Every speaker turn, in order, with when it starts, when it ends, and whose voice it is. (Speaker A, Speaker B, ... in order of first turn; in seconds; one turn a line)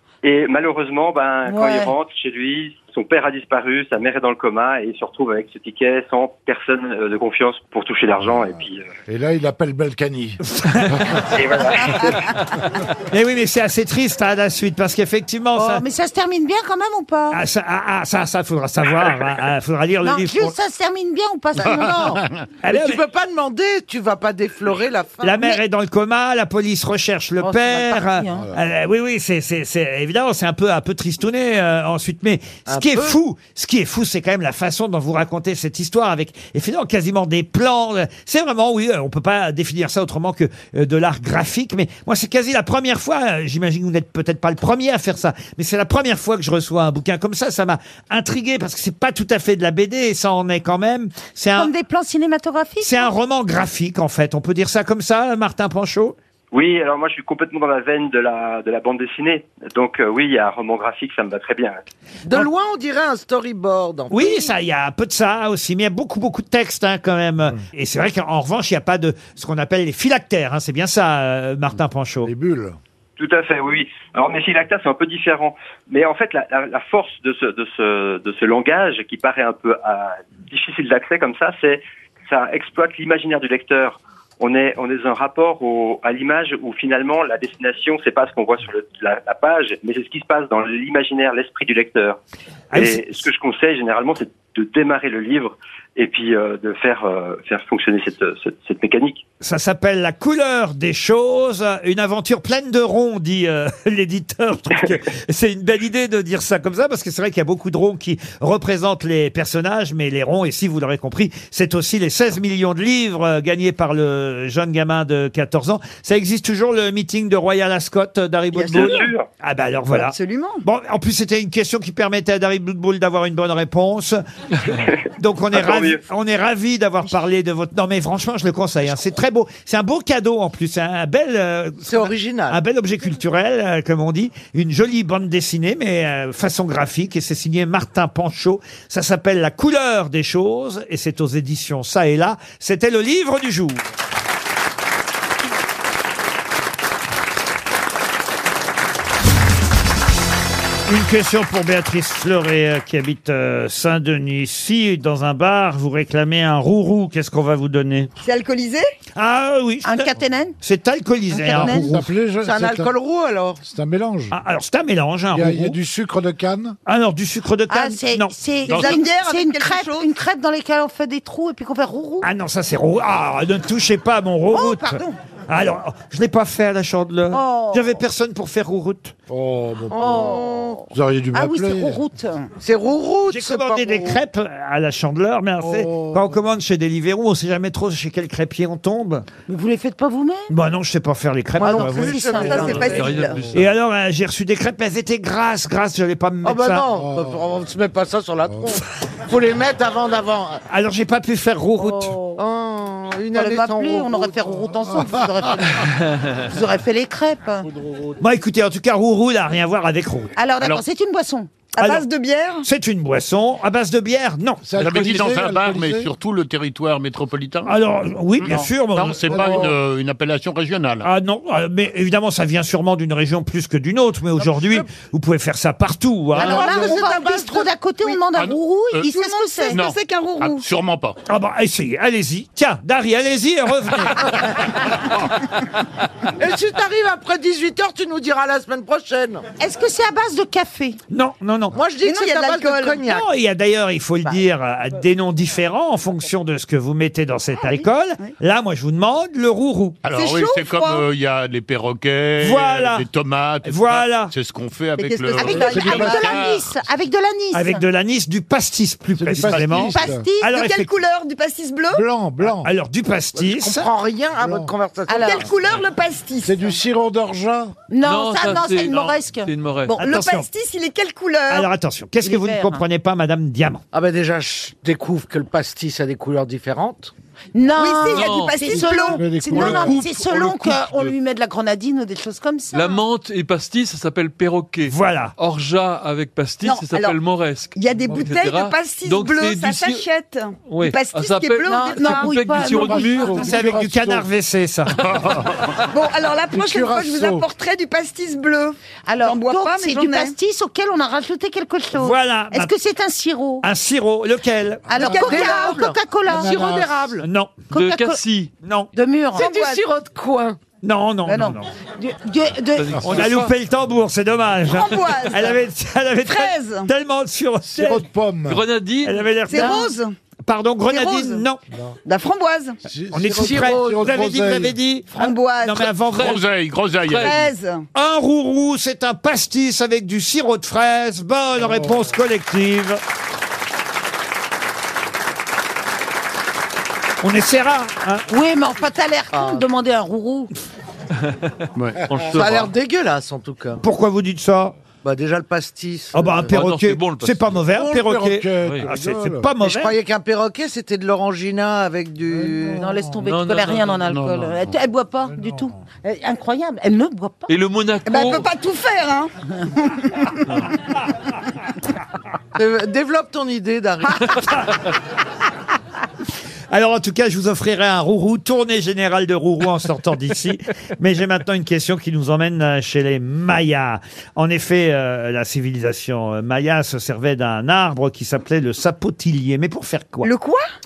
Speaker A: 0.2-8.8
Speaker B: 1.4-1.9
Speaker C: 9.1-11.2
Speaker D: 10.6-10.9
Speaker A: 11.3-12.1
Speaker D: 13.1-15.8
Speaker B: 15.5-17.4
Speaker D: 17.3-20.5
Speaker B: 20.0-22.2
Speaker E: 21.7-25.5
Speaker D: 22.6-23.0
Speaker D: 25.2-51.7
Speaker B: 27.4-28.4
Speaker E: 32.7-33.2
Speaker B: 51.5-53.1
Speaker D: 52.8-56.1
Speaker A: 56.5-61.8
Speaker E: 62.2-64.5
Speaker D: 64.1-72.3
Speaker C: 72.2-72.8
Speaker A: 73.2-92.2
Speaker D: 92.7-93.2
Speaker A: 92.7-99.2
Speaker D: 99.4-124.2
Speaker F: 118.5-119.1
Speaker A: 118.7-119.3
Speaker F: 119.9-120.6
Speaker D: 125.2-143.8
Speaker A: 125.5-126.0
Speaker E: 131.8-132.6
Speaker D: 150.9-158.1
Speaker F: 158.2-158.8
Speaker D: 159.2-162.1
Speaker B: 159.8-160.6
Speaker B: 161.3-161.9
Speaker C: 161.5-162.9
Speaker E: 162.4-163.6
Speaker C: 163.6-164.3
Speaker D: 164.3-165.8
Speaker C: 165.3-166.8
Speaker D: 166.8-168.3
Speaker B: 167.7-172.3
Speaker F: 168.7-170.1
Speaker G: 168.7-168.9
Speaker D: 172.2-179.1
Speaker B: 174.5-175.2
Speaker B: 177.3-177.9
Speaker C: 179.3-182.0
Speaker E: 179.9-180.8
Speaker B: 180.0-180.8
Speaker B: 181.3-182.5
Speaker E: 182.6-184.2
Speaker D: 183.3-189.2
Speaker C: 185.6-186.4
Speaker B: 189.5-190.5
Speaker D: 190.5-192.8
Speaker E: 191.6-193.2
Speaker B: 191.6-193.1
Speaker F: 192.4-193.4
Speaker H: 192.8-193.7
Speaker D: 193.5-196.8
Speaker E: 196.4-200.6
Speaker C: 196.9-197.5
Speaker C: 198.5-198.8
Speaker D: 200.7-202.2
Speaker B: 201.8-202.4
Speaker E: 202.4-204.6
Speaker B: 203.3-207.7
Speaker C: 204.8-205.2
Speaker D: 208.2-210.3
Speaker B: 210.3-211.5
Speaker F: 211.8-212.6
Speaker D: 211.8-212.1
Speaker D: 212.6-214.7
Speaker C: 214.6-216.1
Speaker G: 214.8-217.8
Speaker D: 217.7-219.6
Speaker G: 218.4-221.1
Speaker C: 219.2-219.8
Speaker D: 221.0-226.7
Speaker E: 226.3-227.7
Speaker B: 226.3-229.8
Speaker G: 228.3-229.1
Speaker F: 229.1-230.6
Speaker G: 229.7-231.2
Speaker D: 231.3-234.6
Speaker E: 236.4-239.4
Speaker B: 239.6-241.0
Speaker D: 241.1-241.8
Speaker E: 241.7-243.2
Speaker F: 242.0-243.0
Speaker D: 243.1-250.0
Speaker G: 250.0-256.7
Speaker F: 250.1-251.0
Speaker D: 252.4-253.1
Speaker D: 253.6-254.3
Speaker F: 255.0-256.4
Speaker B: 255.3-257.8
Speaker C: 255.6-256.4
Speaker D: 257.5-260.9
Speaker C: 259.2-260.2
Speaker B: 259.7-260.6
Speaker F: 260.5-262.0
Speaker C: 261.9-262.7
Speaker D: 262.5-263.9
Speaker E: 263.4-265.5
Speaker C: 264.4-264.7
Speaker B: 265.1-265.4
Speaker F: 265.1-266.8
Speaker C: 266.4-267.8
Speaker B: 267.9-269.5
Speaker H: 268.0-270.0
Speaker F: 269.9-271.7
Speaker D: 270.0-270.5
Speaker D: 271.5-273.8
Speaker B: 272.2-272.8
Speaker E: 273.9-277.1
Speaker B: 277.5-283.0
Speaker F: 277.8-279.9
Speaker H: 278.1-278.6
Speaker C: 278.9-281.1
Speaker H: 279.6-280.2
Speaker H: 282.7-290.1
Speaker D: 284.9-285.3
Speaker F: 286.6-287.2
Speaker F: 287.7-292.8
Speaker H: 290.6-293.4
Speaker B: 291.7-293.6
Speaker C: 292.7-294.3
Speaker D: 293.4-295.1
Speaker G: 295.1-295.6
Speaker F: 295.9-300.3
Speaker C: 296.5-297.4
Speaker B: 299.1-303.6
Speaker D: 301.9-302.7
Speaker D: 303.6-304.9
Speaker B: 304.9-306.6
Speaker F: 305.0-305.8
Speaker E: 305.1-307.2
Speaker C: 306.3-307.1
Speaker D: 307.2-307.7
Speaker H: 307.7-308.5
Speaker B: 307.7-308.2
Speaker D: 308.6-308.9
Speaker B: 308.9-309.5
Speaker E: 309.3-310.6
Speaker F: 309.4-309.8
Speaker D: 310.8-311.7
Speaker B: 311.2-313.3
Speaker H: 312.7-313.5
Speaker D: 313.0-318.0
Speaker F: 314.7-315.6
Speaker F: 316.2-316.9
Speaker C: 317.6-318.6
Speaker H: 318.4-319.3
Speaker D: 319.0-319.9
Speaker F: 319.5-320.1
Speaker B: 319.5-319.9
Speaker D: 320.4-321.6
Speaker F: 320.9-321.4
Speaker C: 321.7-322.0
Speaker F: 322.1-322.8
Speaker C: 322.8-324.8
Speaker D: 323.1-326.4
Speaker E: 323.3-324.3
Speaker F: 325.1-325.9
Speaker H: 326.1-326.4
Speaker G: 326.1-327.4
Speaker H: 327.0-327.4
Speaker F: 327.2-327.8
Speaker D: 327.9-333.0
Speaker C: 331.6-332.1
Speaker D: 337.2-338.2
Speaker B: 338.3-340.5
Speaker E: 339.3-339.6
Speaker G: 341.8-342.0
Speaker C: 342.0-342.3
Speaker H: 342.0-342.7
Speaker E: 342.2-343.8
Speaker D: 343.8-344.8
Speaker E: 345.0-346.5
Speaker D: 346.1-349.9
Speaker H: 346.5-347.6
Speaker C: 347.7-349.5
Speaker E: 349.6-352.8
Speaker C: 352.3-353.2
Speaker B: 352.8-357.5
Speaker H: 353.2-354.2
Speaker G: 354.1-354.7
Speaker C: 355.3-355.8
Speaker H: 357.5-358.5
Speaker F: 358.0-360.4
Speaker E: 362.6-364.5
Speaker D: 366.7-380.3
Speaker F: 380.2-380.6